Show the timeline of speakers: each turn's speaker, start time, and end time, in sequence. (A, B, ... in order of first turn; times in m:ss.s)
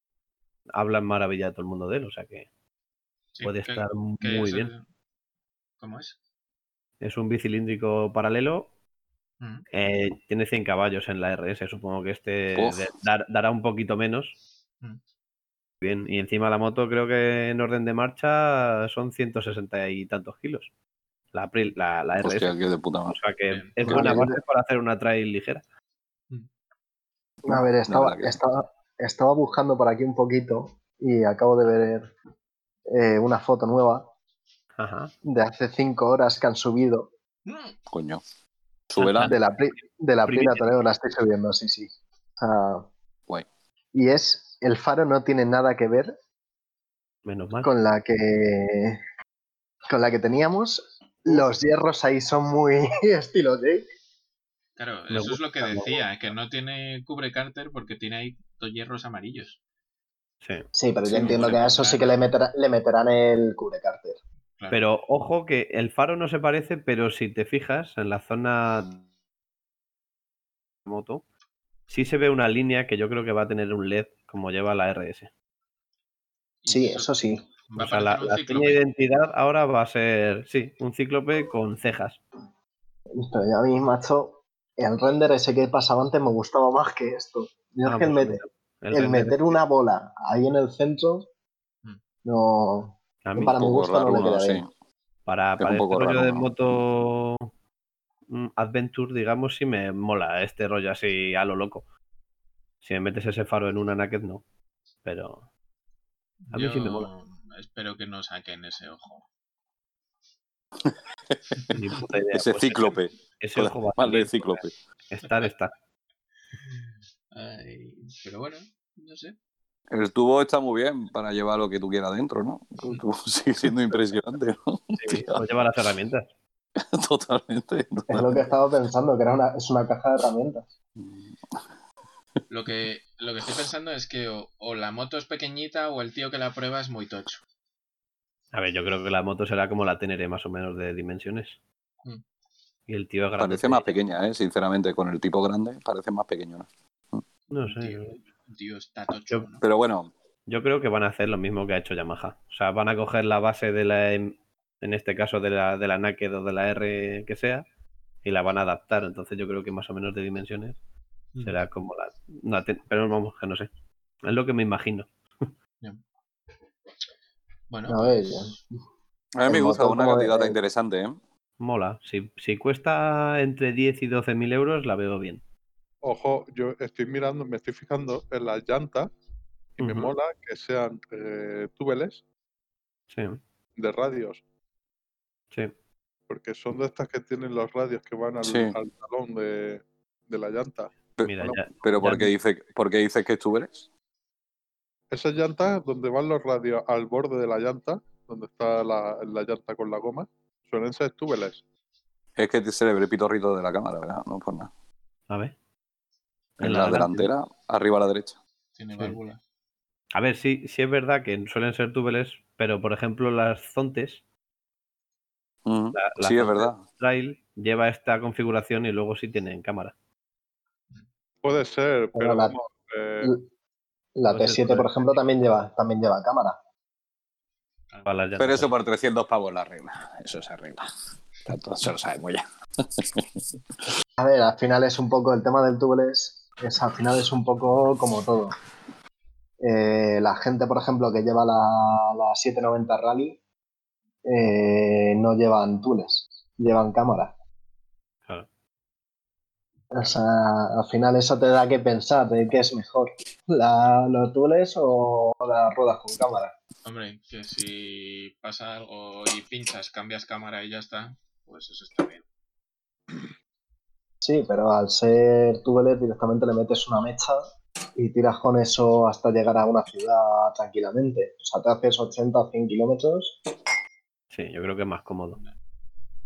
0:00.8-0:02.5 A
0:03.4-0:04.8 B
0:03.4-0:04.7 A
0:05.8-0:06.2 B
0:07.0-0:08.7 A
0:09.4-0:09.6 B
0:09.7-0:14.4 A
0:12.6-0:12.9 C
0:15.8-0:20.7 A
0:21.3-0:25.6 A
0:22.2-0:23.2 C
0:23.5-0:23.9 B
0:23.8-0:24.4 D
0:27.4-0:28.4 C
0:27.5-0:32.1 D
0:32.9-0:34.1 D
0:34.8-0:35.1 A
0:35.2-0:37.1 D
0:37.5-0:37.8 B
0:37.9-0:38.2 C
0:38.9-0:39.4 C
0:39.0-0:39.4 A
0:39.2-0:42.9 D
0:40.3-0:40.6 A
0:43.9-0:46.1 D
0:47.3-0:47.7 A
0:47.6-0:49.0 D
0:49.9-0:53.9 D
0:54.8-0:59.6 B
0:55.1-0:56.0 A
1:00.8-1:04.2 D
1:01.1-1:02.1 B
1:01.1-1:01.6 C
1:04.6-1:04.9 B
1:04.7-1:09.0 A
1:10.9-1:11.2 A
1:11.9-1:15.3 A
1:16.6-1:18.8 B
1:16.7-1:17.4 D
1:17.8-1:22.2 A
1:23.2-1:31.3 D
1:27.8-1:29.6 A
1:32.2-1:34.6 D
1:33.2-1:33.6 A
1:33.5-1:34.7 C
1:35.3-1:37.5 A
1:35.6-1:36.8 C
1:38.3-1:41.8 A
1:42.8-1:44.4 A
1:45.0-1:45.4 A
1:46.4-1:49.3 B
1:46.5-1:47.1 A
1:50.8-1:51.6 C
1:51.7-1:55.7 A
1:52.3-1:54.7 C
1:57.3-1:59.4 B
1:59.9-2:05.4 C
2:05.0-2:06.3 A
2:06.8-2:08.4 C
2:08.1-2:10.7 D
2:11.0-2:11.6 C
2:12.5-2:17.4 B
2:18.5-2:21.6 A
2:22.9-2:24.0 A
2:23.4-2:27.2 C
2:27.5-2:28.2 A
2:27.6-2:29.6 B
2:29.6-2:30.1 C
2:30.5-2:37.6 A
2:38.2-2:40.8 A
2:41.4-2:43.7 A
2:44.2-2:45.5 A
2:47.7-2:48.6 B
2:47.9-2:48.6 D
2:49.4-2:51.2 C
2:49.5-2:50.6 D
2:51.6-2:55.4 A
2:56.0-2:59.1 E
2:59.8-3:02.2 E
2:59.8-3:00.1 A
3:03.1-3:03.4 A
3:03.8-3:04.4 E
3:06.3-3:10.9 E
3:08.4-3:08.8 C
3:11.2-3:13.9 C
3:11.2-3:12.3 A
3:15.1-3:21.6 E
3:22.4-3:24.7 C
3:26.6-3:27.3 A
3:26.6-3:28.4 C
3:28.8-3:29.4 B
3:30.1-3:34.2 A
3:35.6-3:36.8 C
3:36.0-3:40.0 A
3:41.4-3:43.4 E
3:42.2-3:42.6 D
3:44.2-3:46.6 D
3:44.3-3:44.9 A
3:48.0-3:48.7 A
3:48.4-3:50.9 C
3:51.4-3:53.4 C
3:54.2-3:58.6 D
3:59.6-4:03.4 D
4:04.2-4:07.3 D
4:09.9-4:16.6 D
4:16.8-4:22.2 B
4:24.2-4:33.4 D
4:34.3-4:35.4 A